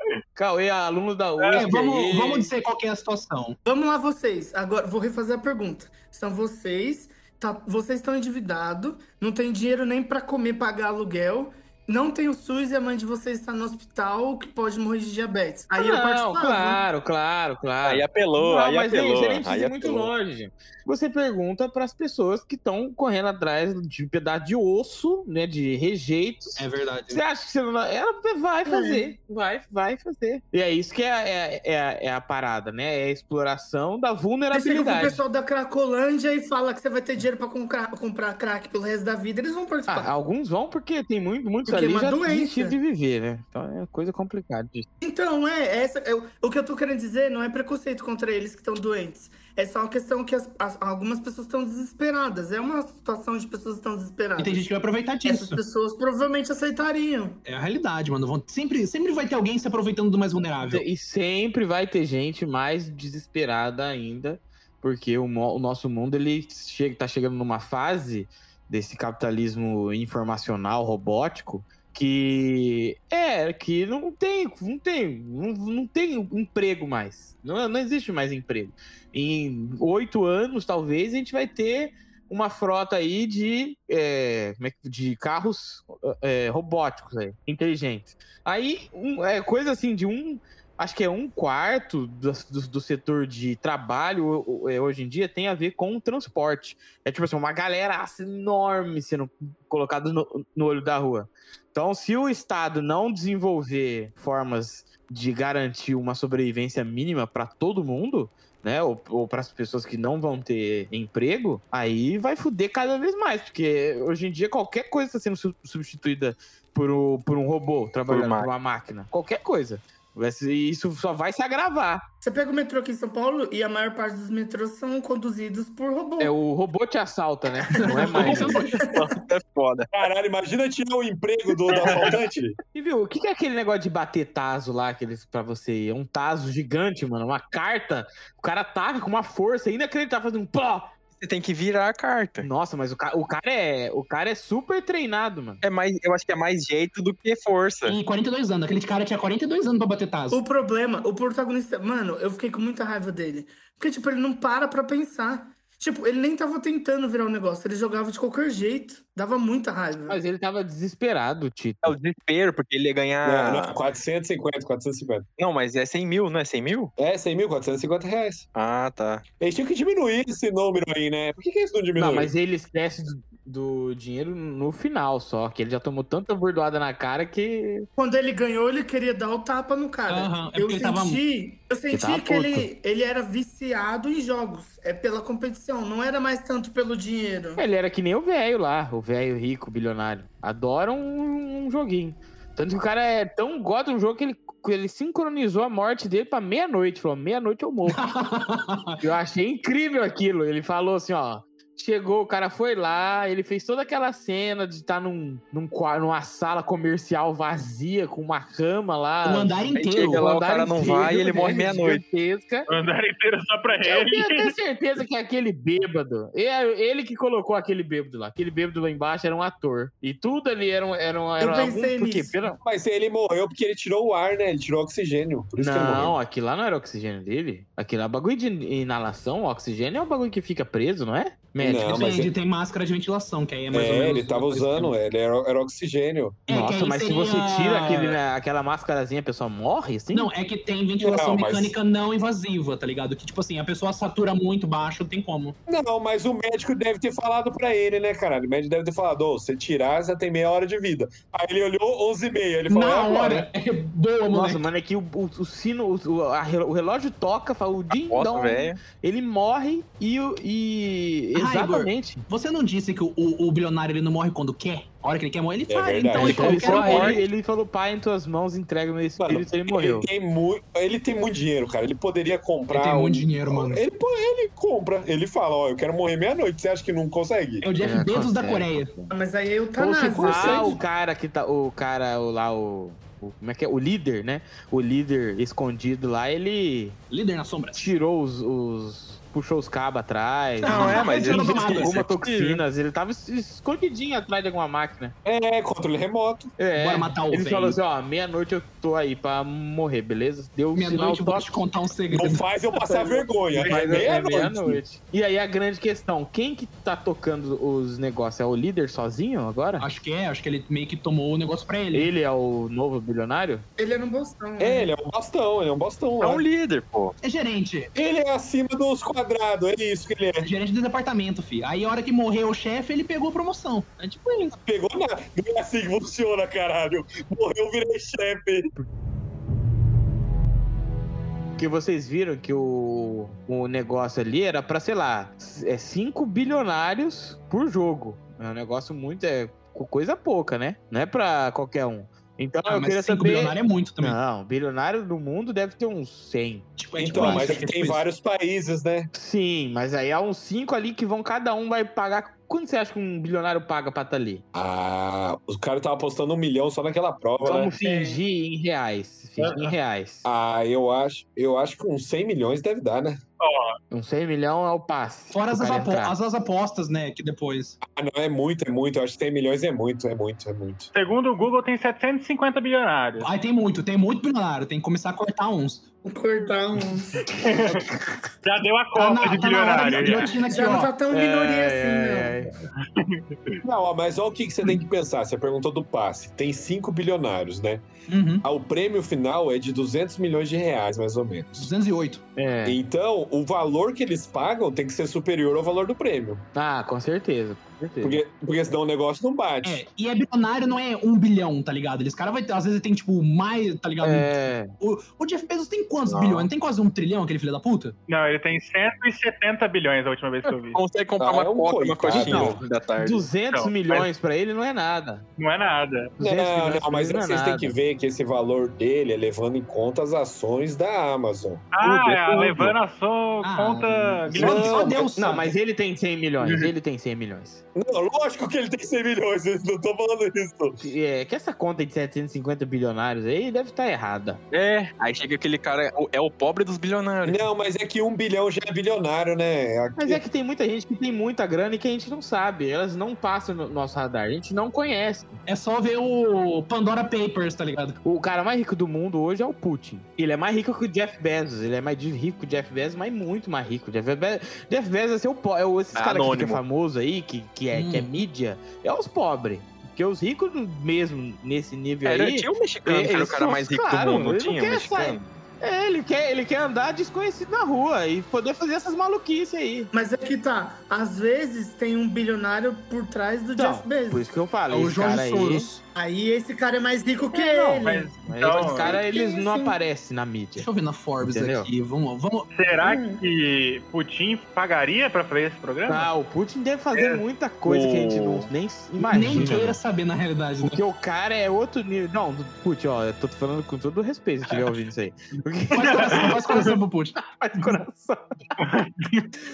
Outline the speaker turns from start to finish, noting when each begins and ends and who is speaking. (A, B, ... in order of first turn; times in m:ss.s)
0:00.3-0:02.5 A
0:01.4-0:01.7 B
0:01.5-0:03.6 C
0:03.6-0:16.8 D
0:15.7-0:35.2 A
0:17.8-0:20.1 E
0:26.6-0:27.2 C
0:28.6-0:29.1 D
0:34.5-0:40.1 D
0:39.9-0:44.9 A
0:41.7-0:42.8 D
0:45.0-0:54.6 D
0:54.4-0:55.6 C
0:55.2-0:57.4 D
0:57.4-1:00.8 C
1:00.6-2:02.0 A
1:58.1-1:58.5 E
2:02.2-2:06.3 D
2:06.2-2:08.6 A
2:07.7-2:08.8 C
2:08.2-2:09.9 E
2:09.9-2:12.6 F
2:11.7-2:12.2 B
2:12.7-2:20.9 A
2:21.2-2:22.5 E
2:22.4-2:25.6 A
2:25.6-2:28.0 E
2:27.9-2:30.4 C
2:30.3-2:40.2 D
2:40.1-2:42.0 A
2:41.8-2:43.8 E
2:43.2-2:45.2 F
2:45.4-2:46.9 E
2:47.0-2:48.4 F
2:48.5-2:49.2 E
2:49.4-2:52.3 F
2:52.0-2:57.8 A
2:58.0-3:07.6 D
3:00.1-3:01.2 C
3:01.9-3:02.7 A
3:07.6-3:18.0 A
3:17.9-3:19.0 C
3:19.0-3:32.7 A
3:29.2-3:30.2 C
3:29.8-3:32.0 E
3:32.7-3:34.5 B
3:33.8-3:42.6 A
3:41.4-3:42.3 D
3:42.6-3:46.2 F
3:45.6-3:52.0 A
3:51.6-3:52.3 F
3:51.8-3:54.9 C
3:53.7-3:56.4 F
3:56.5-3:58.2 C
3:56.5-4:00.3 A
4:00.1-4:05.6 C
4:01.0-4:01.7 F
4:05.7-4:13.5 F
4:12.7-4:14.6 C
4:14.3-4:22.2 A
4:18.1-4:18.8 E
4:21.3-4:27.2 C
4:25.7-4:26.5 F
4:26.2-4:30.0 A
4:26.2-4:27.2 E
4:29.2-4:37.6 F
4:32.7-4:33.8 C
4:37.6-4:38.9 C
4:37.8-4:39.1 A
4:39.1-4:40.8 D
4:39.8-4:47.0 A
4:40.3-4:40.7 C
4:47.1-4:47.9 C
4:47.7-4:55.1 A
4:50.6-4:52.0 C
4:50.6-4:52.6 E
4:55.2-4:56.5 F
4:56.6-5:01.6 A
4:56.7-4:57.8 C
5:00.7-5:02.4 C
5:02.1-5:04.8 F
5:02.8-5:09.9 A
5:09.8-5:12.1 C
5:11.9-5:13.6 A
5:13.8-5:14.9 D
5:14.6-5:16.4 F
5:16.2-5:17.2 E
5:17.2-5:17.9 C
5:17.9-5:20.5 F
5:20.4-5:24.5 C
5:24.6-5:28.7 F
5:31.6-5:47.5 A
5:42.6-5:44.2 C
5:46.8-5:48.0 C
5:47.0-5:49.1 F
5:49.1-5:54.4 A
5:54.5-5:57.7 F
5:57.4-6:00.2 A
5:57.8-5:58.2 D
6:00.2-6:03.2 F
6:03.4-6:03.7 B
6:03.9-6:06.2 A
6:05.3-6:07.8 C
6:07.8-6:10.9 F
6:10.9-6:13.3 B
6:13.2-6:15.9 C
6:16.0-6:17.3 D
6:17.3-6:17.9 B
6:17.7-6:18.2 A
6:18.4-6:20.4 B
6:18.9-6:20.9 C
6:20.5-6:22.4 D
6:21.1-6:22.5 A
6:22.8-6:23.6 B
6:23.6-6:27.8 F
6:28.1-6:28.4 C
6:28.4-6:31.7 F
6:31.6-6:32.2 C
6:32.4-6:32.8 A
6:32.6-6:36.4 F
6:36.5-6:38.2 A
6:38.0-6:39.8 F
6:39.6-6:47.9 C
6:44.0-6:44.7 A
6:46.0-6:46.5 E
6:48.1-6:50.8 B
6:50.7-6:53.3 E
6:51.2-6:52.6 F
6:52.2-6:55.2 A
6:53.5-6:54.1 B
6:55.4-6:56.1 B
6:56.2-6:57.7 A
6:56.2-7:02.8 F
7:01.7-7:04.9 B
7:03.4-7:05.5 C
7:04.3-7:05.1 F
7:04.4-7:04.6 A
7:05.1-7:07.6 A
7:07.7-7:10.8 F
7:10.8-7:14.4 A
7:14.5-7:17.4 E
7:17.2-7:20.2 F
7:20.0-7:25.3 A
7:25.5-7:28.0 C
7:28.0-7:49.9 A
7:35.9-7:36.6 E
7:37.7-7:38.2 C
7:42.0-7:45.3 E
7:49.9-7:54.2 D
7:53.5-7:55.7 A
7:54.7-7:55.8 C
7:55.9-7:58.1 D
7:57.3-8:00.7 A
7:57.8-7:59.0 B
7:58.7-7:59.8 D
8:00.6-8:02.5 C
8:01.2-8:01.7 A
8:02.5-8:06.1 B
8:02.8-8:03.2 D
8:05.9-8:09.8 A
8:06.9-8:07.2 B
8:07.6-8:08.5 E
8:09.0-8:10.8 C
8:10.6-8:18.5 A
8:15.7-8:17.2 C
8:15.8-8:16.7 B
8:18.6-8:19.3 B